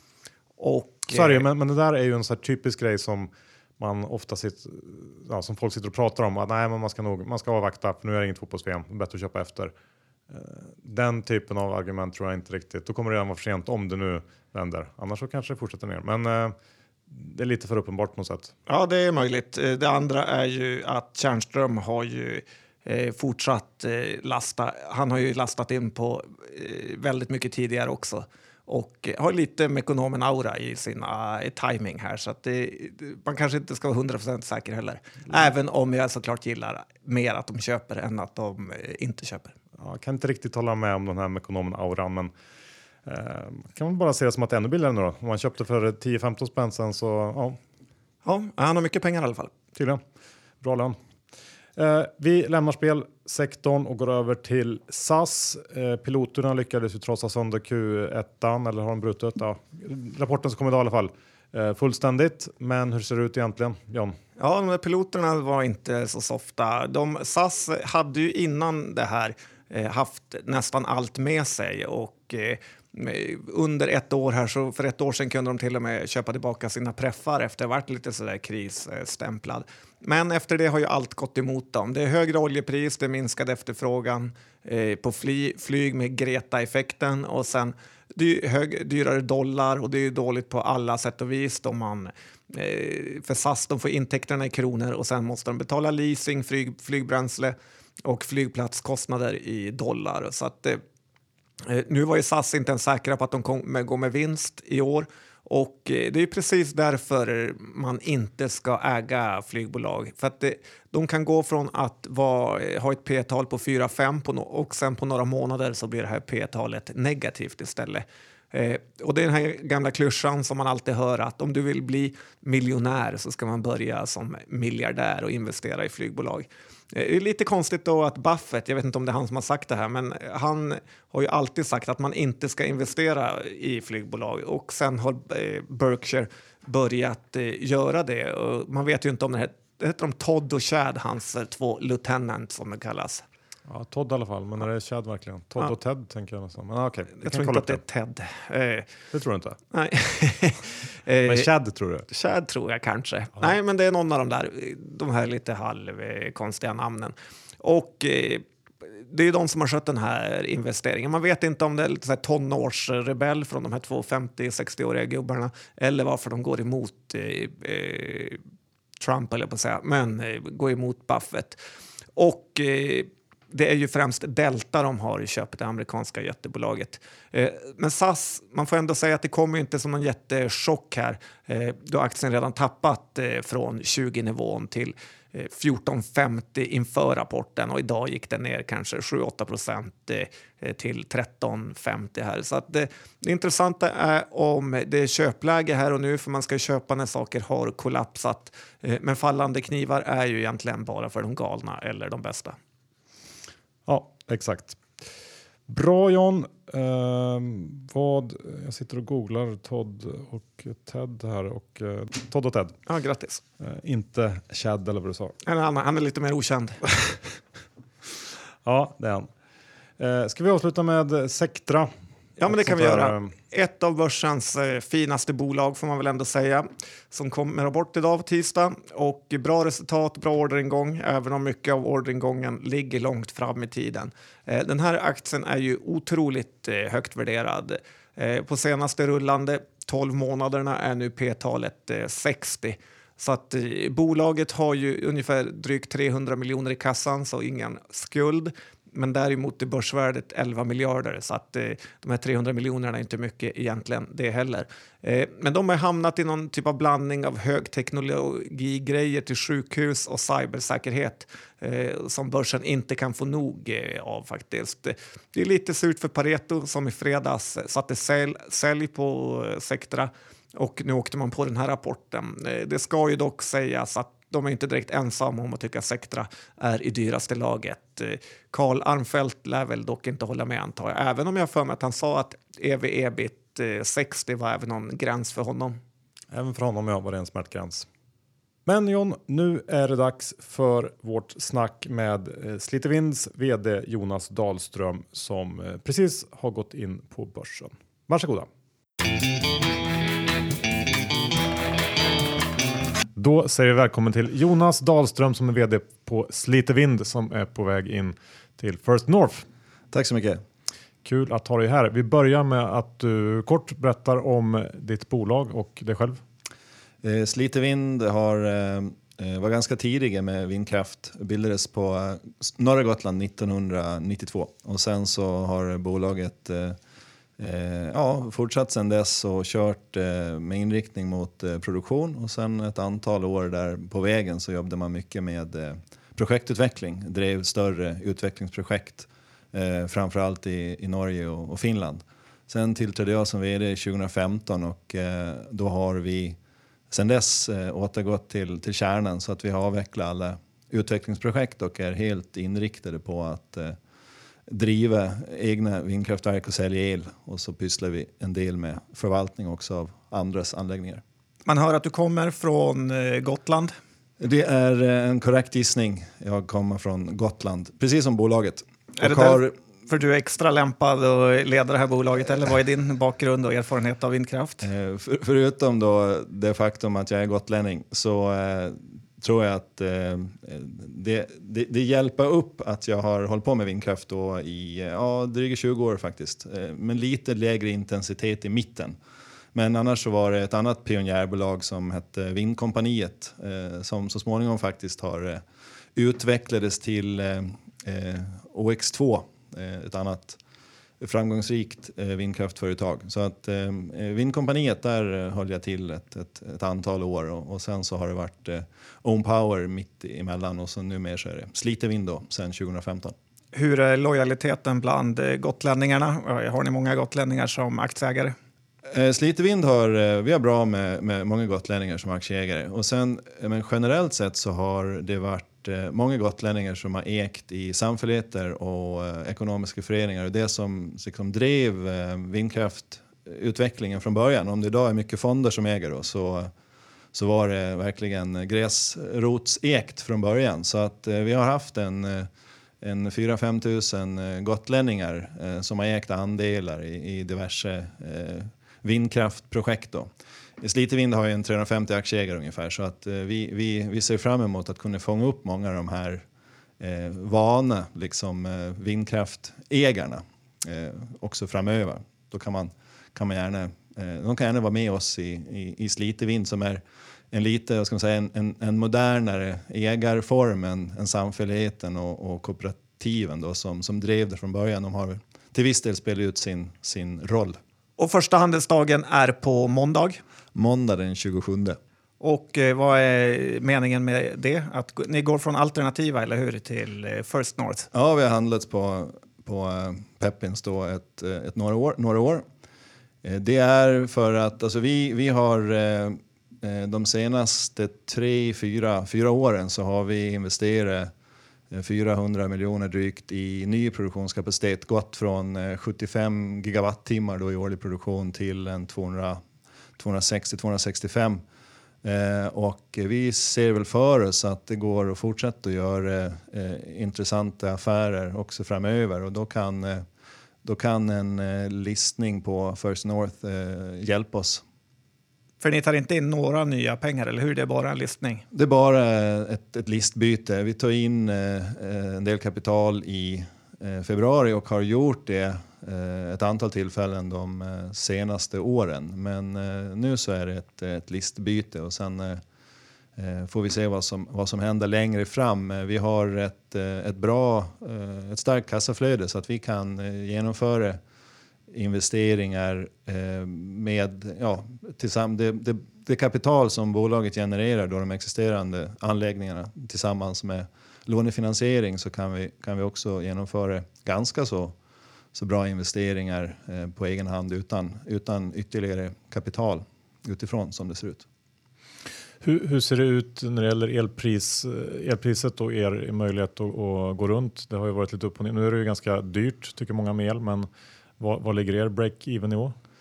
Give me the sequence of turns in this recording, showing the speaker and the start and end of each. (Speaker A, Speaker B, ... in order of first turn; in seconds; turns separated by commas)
Speaker A: 0.6-1.4, Speaker B: 1.1-9.7, Speaker B: 10.3-16.5, Speaker B: 17.1-18.5, Speaker A: 18.7-39.5, Speaker B: 39.8-42.3, Speaker B: 43.0-47.6, Speaker A: 48.2-49.5, Speaker B: 49.7-50.0, Speaker B: 50.6-51.0, Speaker B: 51.8-64.1, Speaker A: 64.4-100.8, Speaker A: 101.6-143.2, Speaker B: 143.7-147.8, Speaker A: 147.2-148.9, Speaker B: 149.1-149.6, Speaker A: 149.7-151.5, Speaker B: 151.2-152.1, Speaker A: 152.1-168.4, Speaker A: 169.0-171.6, Speaker A: 172.2-202.6, Speaker B: 203.9-205.0, Speaker B: 205.7-212.8, Speaker A: 212.9-213.4, Speaker B: 213.6-215.3, Speaker A: 215.4-217.2, Speaker B: 218.6-219.3, Speaker B: 220.0-221.9, Speaker A: 222.4-285.8, Speaker B: 222.5-223.3, Speaker B: 286.3-287.9, Speaker B: 288.6-298.5, Speaker B: 303.1-309.4, Speaker C: 309.9-310.4, Speaker B: 311.0-316.2, Speaker C: 317.0-326.8, Speaker C: 327.4-346.4, Speaker C: 346.9-353.8, Speaker C: 354.5-361.0, Speaker A: 361.4-363.7, Speaker C: 364.2-369.5, Speaker A: 369.0-374.7, Speaker C: 374.6-388.9, Speaker C: 389.5-395.4, Speaker C: 395.9-400.4, Speaker C: 401.0-413.1, Speaker A: 413.5-418.4, Speaker C: 418.9-436.5, Speaker C: 437.1-442.3, Speaker C: 442.8-450.1, Speaker C: 450.6-456.2, Speaker C: 456.8-477.6, Speaker A: 478.0-480.2, Speaker C: 480.5-481.8, Speaker A: 482.2-487.9, Speaker C: 487.9-492.4, Speaker C: 493.2-501.1, Speaker C: 501.7-509.4, Speaker C: 510.0-511.4, Speaker C: 512.0-520.0, Speaker C: 520.6-524.6, Speaker A: 525.6-528.4, Speaker C: 528.5-542.4, Speaker C: 543.2-551.0, Speaker C: 551.7-564.7, Speaker C: 565.3-571.2, Speaker B: 572.4-580.7, Speaker B: 581.2-582.7